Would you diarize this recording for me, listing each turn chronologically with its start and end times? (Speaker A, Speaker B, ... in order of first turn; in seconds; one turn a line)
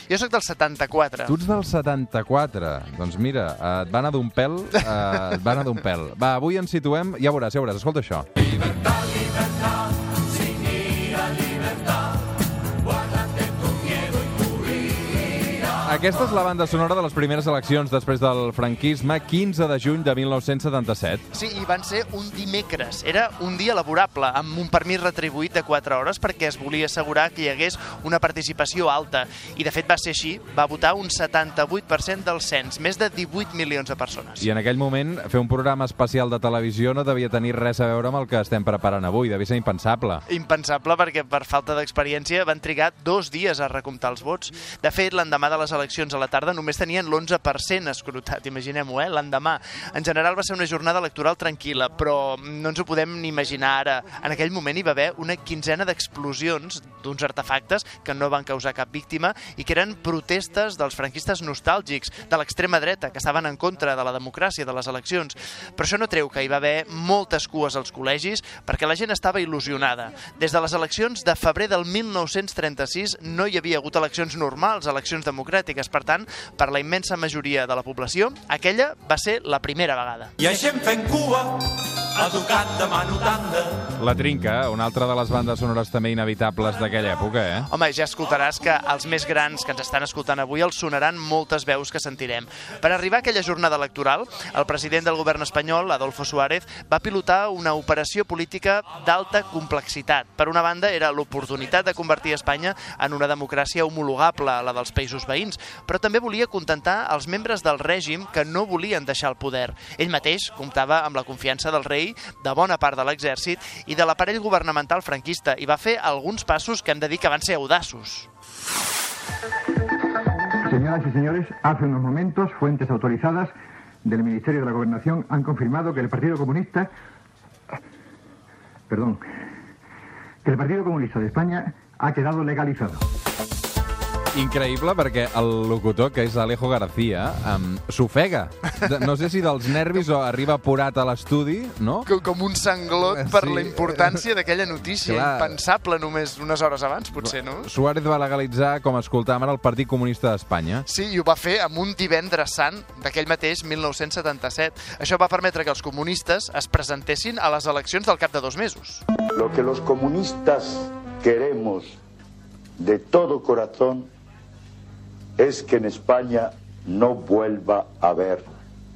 Speaker A: 0.1-1.4
Speaker B: 1.3-8.5
Speaker B: 15.8-21.2
Speaker A: 21.3-34.5
Speaker B: 34.4-40.2
Speaker A: 40.3-80.5
Speaker C: 80.6-81.6
Speaker B: 80.7-81.1
Speaker C: 82.2-83.6
Speaker B: 83.8-87.7
Speaker A: 87.7-118.3
Speaker D: 120.6-123.5
Speaker D: 124.0-126.9
Speaker D: 128.9-129.2
Speaker D: 130.4-133.0
Speaker B: 134.3-142.1
Speaker A: 142.1-147.7
Speaker B: 143.1-144.2
Speaker B: 145.0-145.6
Speaker B: 147.6-150.8
Speaker A: 150.9-159.0
Speaker E: 159.3-162.0
Speaker E: 162.8-164.1
Speaker E: 165.4-168.5